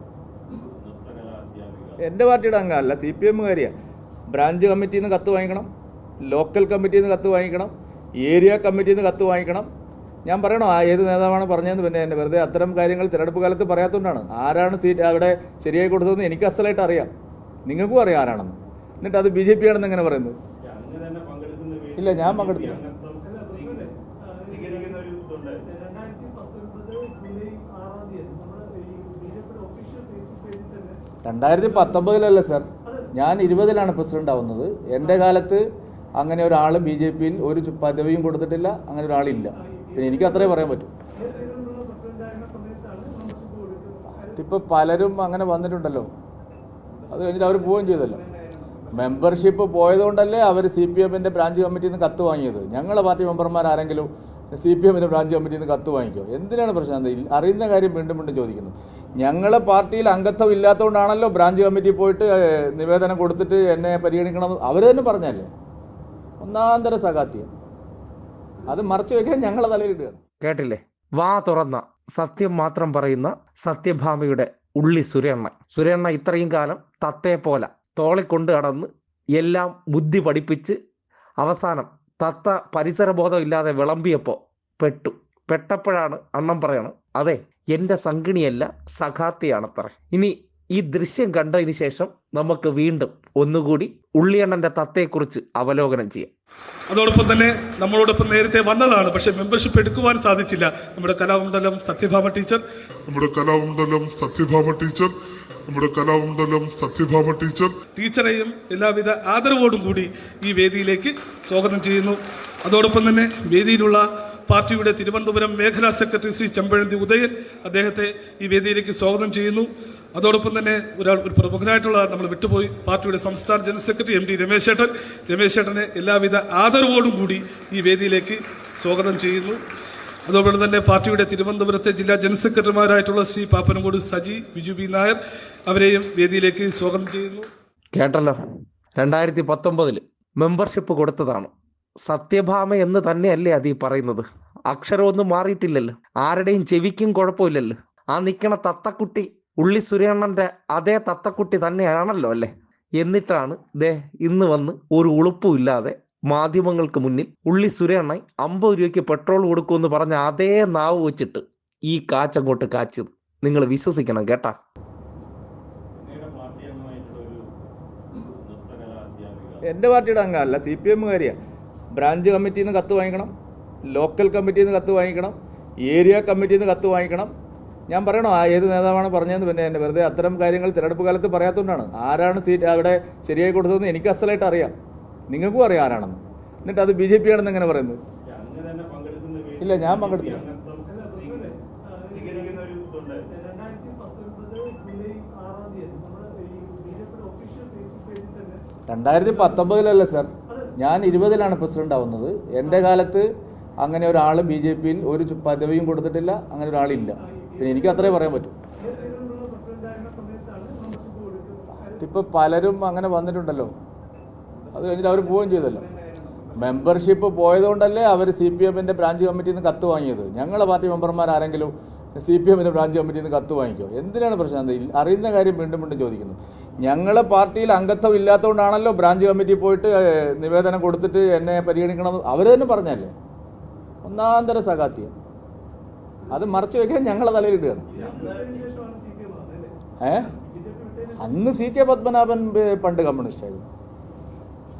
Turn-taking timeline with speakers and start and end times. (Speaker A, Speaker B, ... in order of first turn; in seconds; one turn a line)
Speaker A: 0.5-2.0
Speaker B: 2.0-3.7
Speaker B: 4.3-5.7
Speaker B: 6.3-7.7
Speaker B: 8.2-9.7
Speaker B: 10.2-17.1
Speaker B: 17.7-20.4
Speaker A: 20.6-23.9
Speaker B: 22.0-22.8
Speaker C: 23.3-24.8
Speaker A: 24.4-25.7
Speaker C: 25.7-31.0
Speaker B: 31.2-35.6
Speaker B: 36.2-40.9
Speaker C: 39.7-40.5
Speaker C: 41.1-44.2
Speaker B: 44.1-46.1
Speaker B: 47.1-48.2
Speaker B: 48.9-65.5
Speaker B: 66.4-67.5
Speaker B: 68.7-70.2
Speaker D: 70.4-80.8
Speaker D: 81.4-96.3
Speaker E: 96.9-102.6
Speaker F: 103.1-105.2
Speaker F: 105.7-107.7
Speaker E: 107.9-129.6
Speaker E: 130.2-137.5
Speaker D: 137.9-138.4
Speaker D: 138.9-141.5
Speaker D: 142.0-164.5
Speaker A: 166.0-167.4
Speaker A: 168.1-169.6
Speaker B: 169.7-171.4
Speaker B: 171.9-173.3
Speaker B: 173.9-177.3
Speaker B: 177.9-184.7
Speaker B: 185.3-188.0
Speaker A: 188.2-191.5
Speaker B: 189.6-190.4
Speaker C: 190.9-192.6
Speaker A: 192.1-193.3
Speaker C: 193.3-198.6
Speaker B: 198.9-203.2
Speaker B: 203.8-208.5
Speaker C: 207.4-208.2
Speaker C: 208.8-212.0
Speaker B: 211.8-213.7
Speaker B: 214.7-215.9
Speaker B: 216.6-233.1
Speaker B: 234.0-235.1
Speaker B: 236.3-237.9
Speaker A: 237.9-238.7
Speaker C: 238.0-239.7
Speaker B: 240.0-240.3
Speaker C: 240.4-241.3
Speaker B: 241.2-243.7